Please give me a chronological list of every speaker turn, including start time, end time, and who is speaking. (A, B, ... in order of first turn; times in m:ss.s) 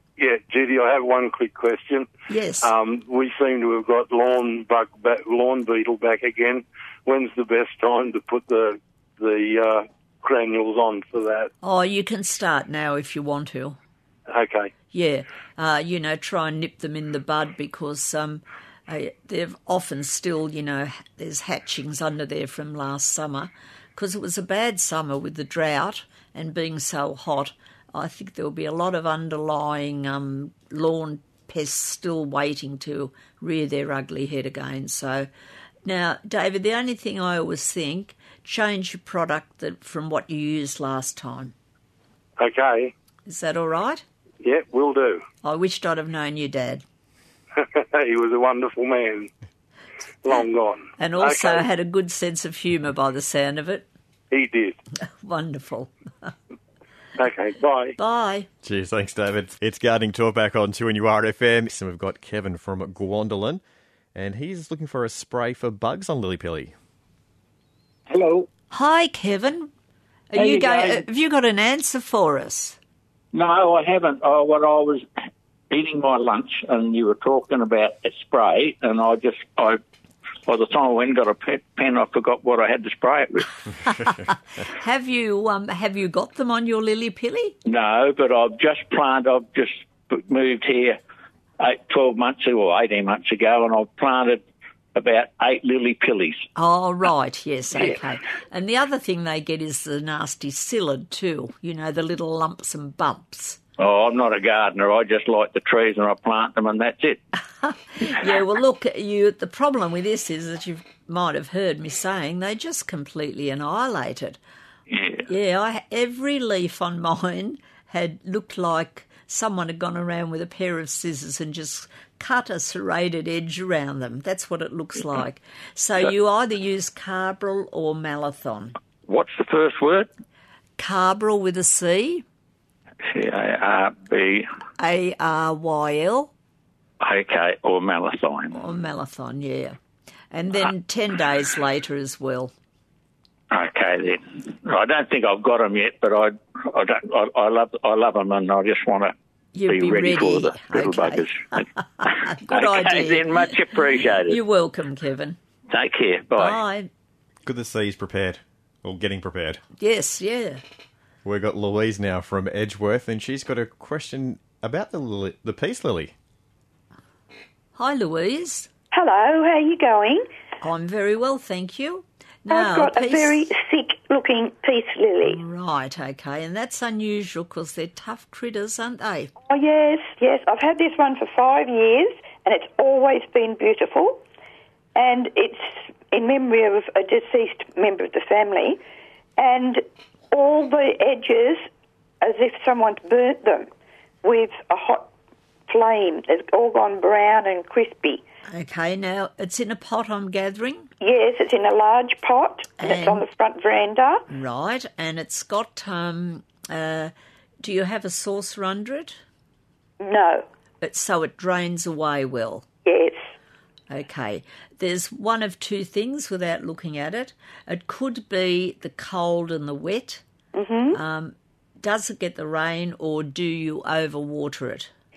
0:00.2-0:02.1 A
0:02.3-0:02.7 B
0:02.6-0:11.5 A
0:11.6-0:13.8 B
0:14.3-0:14.7 A
0:14.9-0:35.3 B
0:35.8-0:41.5 B
0:42.4-0:42.9 A
0:43.3-0:44.0 B
0:44.4-0:45.2 A
0:45.4-0:46.8 B
0:47.6-0:49.3 A
0:50.2-0:51.6 A
0:51.0-0:53.9 B
0:54.3-0:54.8 A
0:55.2-0:56.3 B
0:57.2-0:58.0 A
0:58.0-0:58.5 B
0:58.6-1:03.6 C
1:04.1-1:06.7 C
1:08.1-1:08.5 D
1:08.7-1:09.7 B
1:10.3-1:12.8 B
1:10.4-1:11.0 D
1:13.3-1:15.0 D
1:15.7-1:19.8 D
1:20.4-1:23.7 D
1:23.9-1:27.6 B
1:27.6-1:31.0 D
1:31.6-1:34.4 D
1:34.9-1:36.4 D
1:36.6-1:43.6 B
1:43.8-1:47.2 D
1:47.6-1:54.4 B
1:54.9-1:55.2 D
1:55.2-2:08.8 B
2:09.0-2:10.1 D
2:10.8-2:12.2 B
2:13.0-2:14.5 D
2:14.8-2:16.3 B
2:17.0-2:18.6 D
2:18.5-2:19.8 B
2:20.3-2:22.5 B
2:23.5-2:29.1 D
2:29.5-2:35.4 B
2:29.7-2:34.4 D
2:35.7-2:36.6 D
2:36.3-2:36.9 B
2:37.4-2:39.6 C
2:39.8-2:40.6 B
2:41.2-2:46.1 C
2:47.7-2:48.7 B
2:48.9-2:50.3 E
2:50.6-2:53.5 B
2:52.5-2:55.4 E
2:55.2-2:59.3 B
2:59.4-3:04.2 E
3:04.9-3:08.8 E
3:09.4-3:11.7 E
3:12.2-3:13.7 E
3:14.2-3:15.1 E
3:15.7-3:18.2 E
3:18.5-3:20.9 B
3:21.0-3:24.2 E
3:22.8-3:23.3 B
3:24.3-3:29.2 B
3:30.0-3:30.4 E
3:30.8-3:32.6 B
3:32.8-3:33.3 E
3:33.9-3:40.2 B
3:40.5-3:41.0 E
3:40.9-3:44.9 B